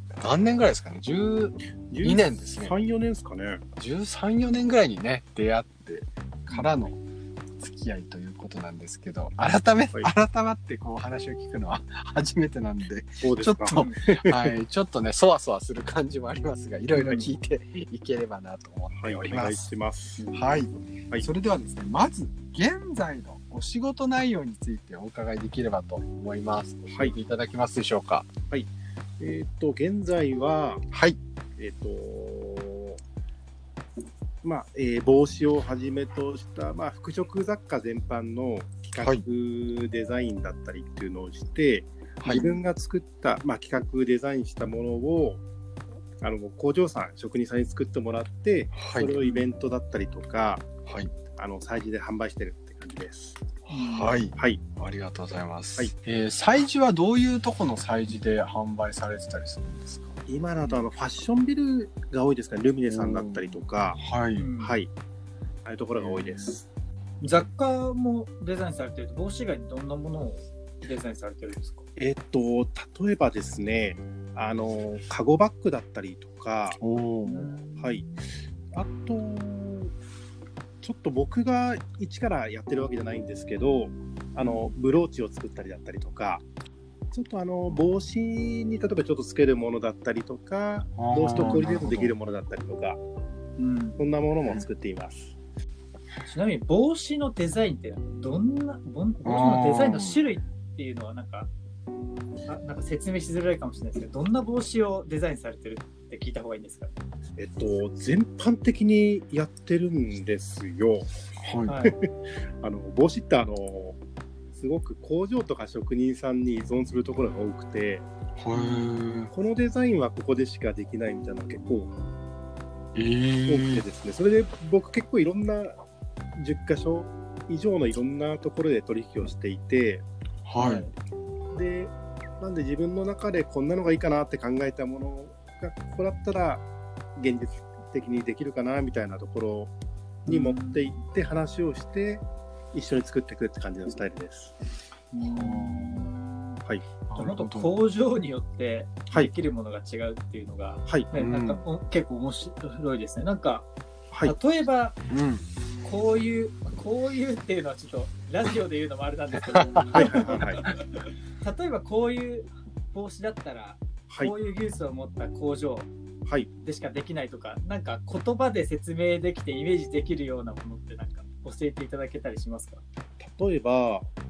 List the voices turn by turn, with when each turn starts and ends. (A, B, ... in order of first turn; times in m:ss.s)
0:00.2-0:02.7 A
0:01.9-0:03.6 B
0:03.8-0:07.0 A
0:07.6-0:19.7 A
0:13.2-0:14.5 B
0:13.7-0:14.0 C
0:16.9-0:17.3 C
0:19.0-0:20.2 B
0:20.3-0:28.3 A
0:29.2-0:30.8 B
0:30.9-0:31.2 A
0:31.6-0:33.0 B
0:34.4-0:45.4 B
0:39.0-0:39.2 A
0:42.2-0:42.5 A
0:46.2-0:50.7 B
0:48.7-0:49.2 A
0:49.2-0:49.4 C
0:50.8-0:51.1 A
0:51.4-0:53.4 B
0:53.7-1:00.2 A
0:53.7-0:54.1 C
0:54.4-0:54.6 B
1:00.3-1:04.0 B
1:02.9-1:04.5 A
1:04.4-1:04.8 C
1:04.6-1:04.9 B
1:05.6-1:06.6 B
1:06.0-1:06.4 A
1:07.2-1:11.8 C
1:12.0-1:16.8 B
1:16.8-1:17.5 A
1:17.2-1:18.2 C
1:17.8-1:18.0 B
1:18.7-1:19.9 B
1:20.8-1:26.4 B
1:24.4-1:24.7 C
1:27.1-1:33.0 B
1:31.0-1:32.1 A
1:31.4-1:31.7 C
1:33.6-1:34.1 C
1:34.0-1:35.3 B
1:36.2-1:41.5 C
1:39.2-1:40.2 A
1:42.5-1:47.0 C
1:47.4-1:51.1 B
1:51.4-1:51.8 A
1:51.6-1:52.0 C
1:52.6-1:54.0 B
1:54.5-1:58.0 B
1:58.4-1:59.3 A
1:58.5-1:59.0 C
1:59.3-2:01.9 B
2:02.9-2:03.8 A
2:03.5-2:05.8 B
2:06.4-2:10.0 B
2:10.4-2:10.9 A
2:10.6-2:10.9 C
2:11.5-2:16.6 B
2:17.2-2:19.7 B
2:20.2-2:20.9 C
2:20.3-2:24.5 B
2:25.1-2:26.6 C
2:25.2-2:26.1 A
2:27.1-2:27.7 A
2:27.1-2:33.7 C
2:31.1-2:31.6 A
2:34.2-2:35.0 C
2:35.1-2:35.4 A
2:35.8-2:45.9 C
2:39.4-2:40.7 A
2:39.9-2:40.6 B
2:46.6-2:52.8 C
2:53.2-2:54.1 B